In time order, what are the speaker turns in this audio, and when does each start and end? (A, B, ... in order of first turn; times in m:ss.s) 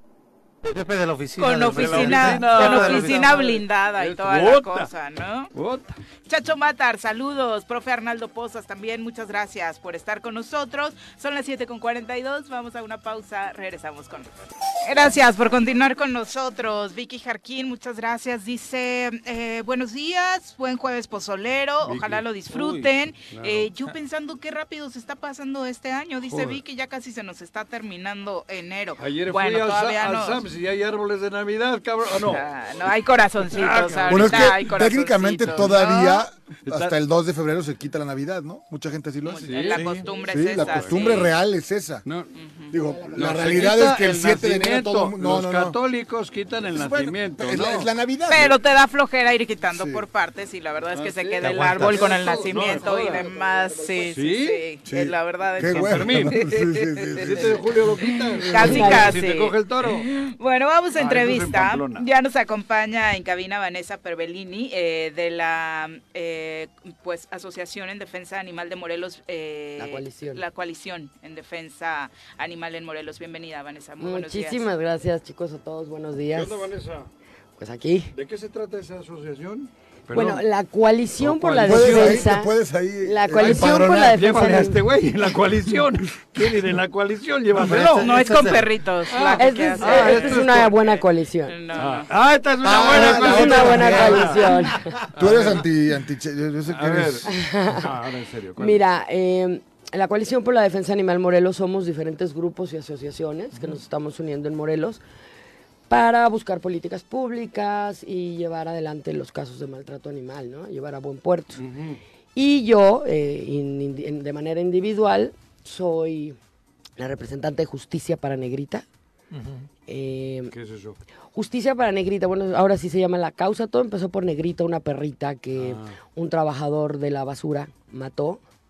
0:00.7-0:03.6 A
0:01.4-0:05.5 B
0:01.7-0:04.9 C
0:05.5-0:06.0 C
0:06.3-0:14.3 B
0:14.8-0:30.4 B
0:21.8-0:22.3 C
0:22.5-0:22.9 A
0:23.3-0:23.7 C
0:26.3-0:26.6 C
0:29.0-0:32.5 C
0:32.2-0:36.3 B
0:33.5-0:34.8 C
0:34.1-0:42.0 D
0:36.7-0:37.0 C
0:39.2-0:41.3 B
0:39.4-0:41.3 C
0:39.8-0:40.0 A
0:42.0-0:42.3 C
0:42.4-0:42.8 B
0:42.7-0:45.8 D
0:42.8-0:43.3 E
0:43.1-0:47.9 C
0:46.7-0:48.6 D
0:48.3-0:57.5 B
0:49.7-0:50.0 D
0:50.9-0:54.6 C
0:51.4-0:52.1 A
0:54.9-0:58.8 D
0:55.6-0:56.4 C
0:57.2-1:00.1 C
0:58.0-1:14.7 B
0:58.6-0:59.2 E
1:01.0-1:02.1 C
1:09.8-1:10.4 E
1:14.0-1:16.7 E
1:16.3-1:17.1 C
1:17.6-1:18.1 E
1:18.1-1:20.5 C
1:20.1-1:25.0 E
1:21.2-1:22.3 C
1:21.6-1:24.3 D
1:23.4-1:30.8 C
1:27.6-1:28.7 A
1:28.0-1:30.9 B
1:29.4-1:31.6 E
1:31.5-1:32.1 B
1:31.7-1:34.6 C
1:32.6-1:34.4 D
1:32.9-1:35.0 E
1:35.1-1:37.3 D
1:35.2-1:35.6 C
1:36.7-1:38.8 C
1:37.3-1:38.0 E
1:38.6-1:45.0 E
1:43.6-1:43.8 A
1:45.9-1:51.6 E
1:51.6-1:52.0 C
1:52.4-1:56.4 E
1:57.0-1:58.8 E
1:59.3-1:59.7 A
1:59.9-2:00.5 E
2:00.5-2:01.0 C
2:01.3-2:08.4 E
2:05.6-2:06.0 C